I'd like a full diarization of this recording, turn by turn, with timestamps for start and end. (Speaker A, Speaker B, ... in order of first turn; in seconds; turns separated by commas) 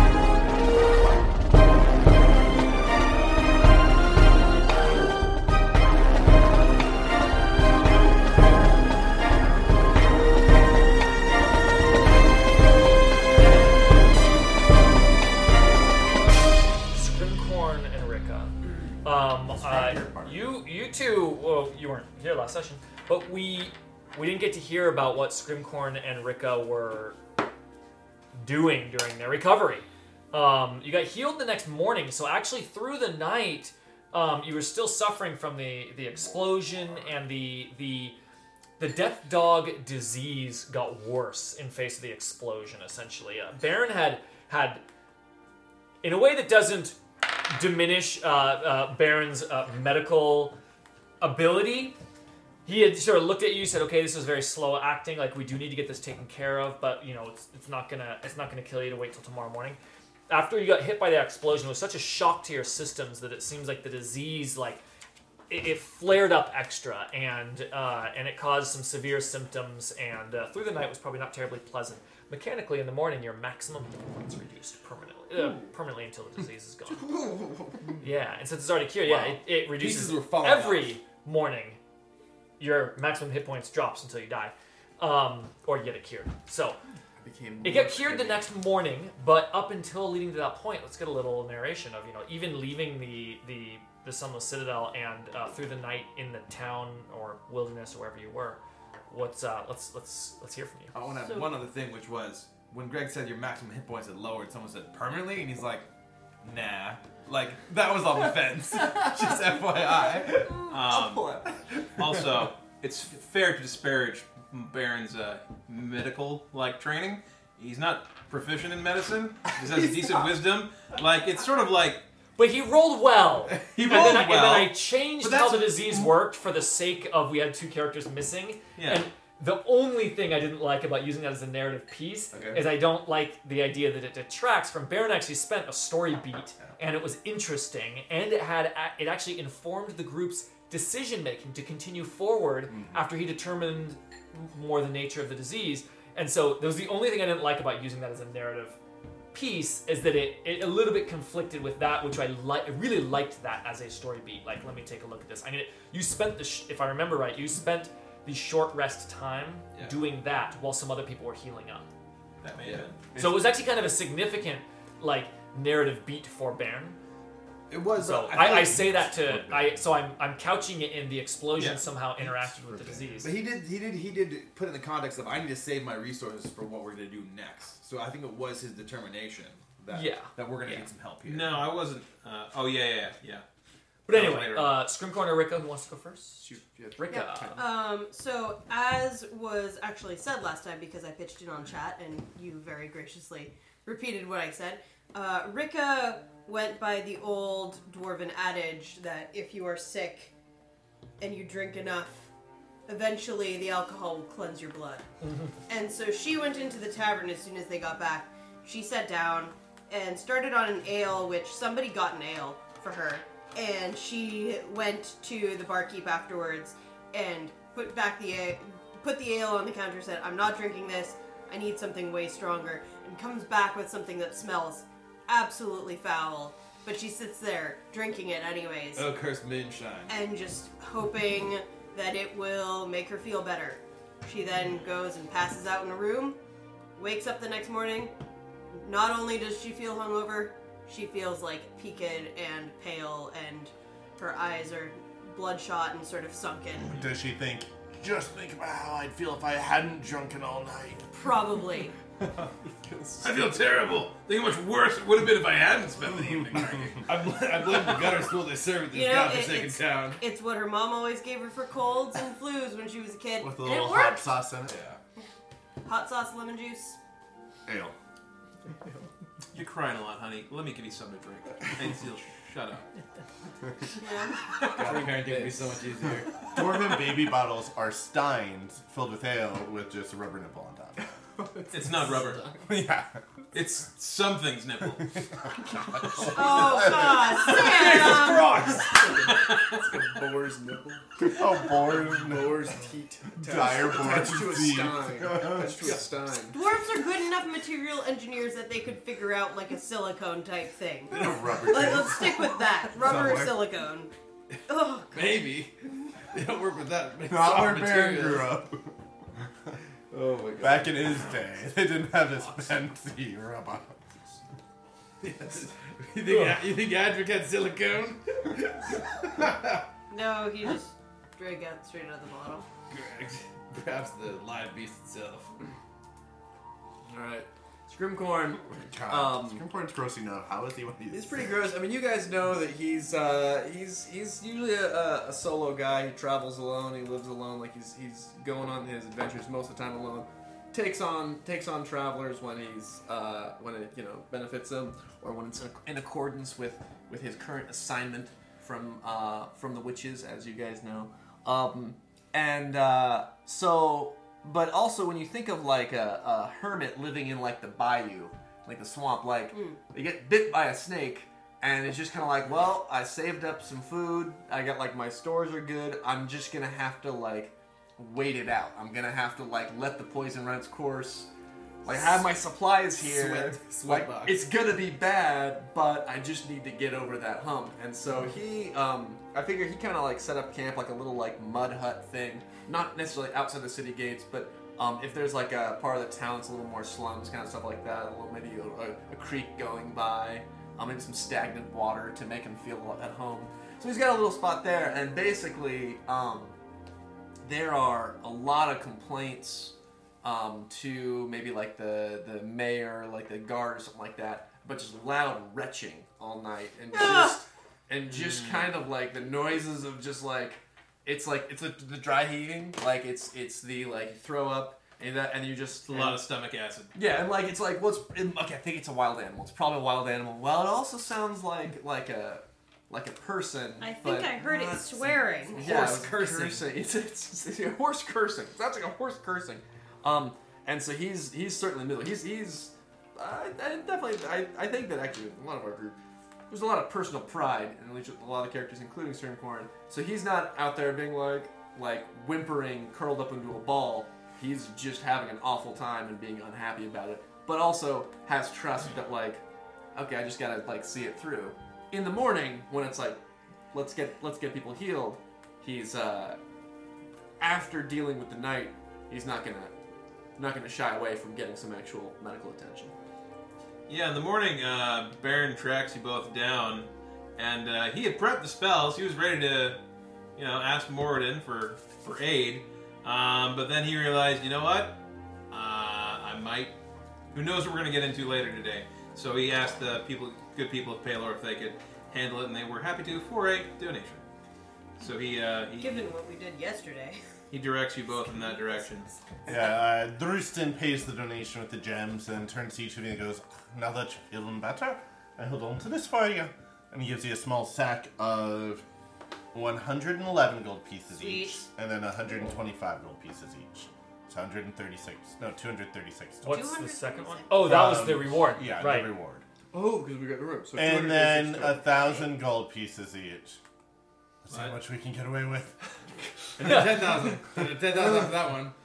Speaker A: 16.9-27.2, Speaker B: 19.3-20.4, Speaker A: 28.3-38.1, Speaker A: 38.8-44.8, Speaker A: 46.0-50.6, Speaker A: 51.2-52.0, Speaker A: 52.6-64.8, Speaker A: 65.5-77.1, Speaker C: 75.3-75.7, Speaker C: 76.9-78.0, Speaker A: 78.0-81.8, Speaker D: 79.0-81.0, Speaker A: 82.6-86.8, Speaker C: 87.2-88.5, Speaker A: 87.6-100.9, Speaker D: 100.9-105.8, Speaker E: 101.2-101.6, Speaker D: 106.4-110.8, Speaker E: 110.3-111.5, Speaker F: 110.7-111.3, Speaker F: 112.0-122.0, Speaker A: 122.3-148.8, Speaker D: 123.5-124.2, Speaker F: 123.8-124.7, Speaker D: 125.2-126.1, Speaker F: 128.8-129.1, Speaker D: 132.3-132.7, Speaker B: 142.7-143.0, Speaker A: 149.3-161.9, Speaker F: 162.4-163.0, Speaker D: 162.5-163.5, Speaker A: 163.2-167.0, Speaker D: 167.7-169.8, Speaker A: 168.0-173.3, Speaker D: 172.7-181.6, Speaker A: 179.9-180.9, Speaker F: 181.2-183.4, Speaker F: 184.1-184.8, Speaker A: 184.1-186.5, Speaker C: 186.4-187.7, Speaker A: 187.0-187.6, Speaker E: 187.1-200.3, Speaker E: 201.2-202.3, Speaker E: 202.9-205.1, Speaker E: 205.7-229.1, Speaker D: 228.9-230.2, Speaker E: 230.1-236.4, Speaker E: 237.0-238.1, Speaker E: 238.7-247.0, Speaker B: 246.8-251.1, Speaker E: 251.1-251.9, Speaker C: 252.7-253.4, Speaker F: 253.2-257.0, Speaker D: 257.0-260.2, Speaker E: 258.9-264.4, Speaker B: 263.4-264.8, Speaker D: 264.7-265.0, Speaker E: 265.8-267.0, Speaker B: 267.7-267.9, Speaker F: 269.5-272.9, Speaker E: 273.9-274.4, Speaker D: 274.7-276.5, Speaker C: 275.0-275.7, Speaker B: 276.5-281.0, Speaker C: 281.4-282.6, Speaker F: 281.7-282.5, Speaker B: 282.6-283.2, Speaker F: 283.5-285.2, Speaker B: 285.0-287.4, Speaker E: 286.2-288.7, Speaker C: 287.4-296.6, Speaker F: 287.4-288.2, Speaker D: 287.8-288.6, Speaker F: 289.1-289.8, Speaker B: 291.2-292.7, Speaker B: 293.4-296.0, Speaker E: 296.5-304.1, Speaker B: 301.1-302.6, Speaker D: 302.9-303.6, Speaker E: 304.6-305.4, Speaker D: 305.1-308.5, Speaker B: 307.2-308.9, Speaker D: 310.1-311.1, Speaker B: 310.6-314.4, Speaker D: 315.2-319.8, Speaker E: 320.1-322.7, Speaker D: 322.9-325.5, Speaker C: 327.1-329.6, Speaker B: 328.8-331.5, Speaker C: 331.1-371.3, Speaker E: 359.5-359.8, Speaker C: 371.8-396.5, Speaker D: 372.9-374.4, Speaker C: 397.4-416.3, Speaker E: 406.9-407.4, Speaker F: 415.9-417.0, Speaker C: 416.9-436.0, Speaker E: 423.8-425.7, Speaker D: 425.6-426.6, Speaker C: 436.5-449.4, Speaker C: 449.9-456.4, Speaker C: 457.4-459.7, Speaker C: 460.4-462.9, Speaker F: 463.9-469.8, Speaker F: 470.4-475.0, Speaker F: 475.5-476.8, Speaker F: 477.3-484.2, Speaker F: 485.0-486.1, Speaker E: 485.7-487.2, Speaker F: 487.5-489.1, Speaker E: 488.1-489.2, Speaker B: 489.4-498.8, Speaker B: 499.5-506.7, Speaker E: 501.1-501.6, Speaker A: 506.4-509.1, Speaker E: 506.5-508.1, Speaker B: 507.5-509.4, Speaker C: 509.7-511.9, Speaker B: 510.7-513.6, Speaker E: 511.9-512.3, Speaker B: 514.4-515.8, Speaker F: 514.5-514.8, Speaker D: 516.6-518.7, Speaker A: 516.6-517.4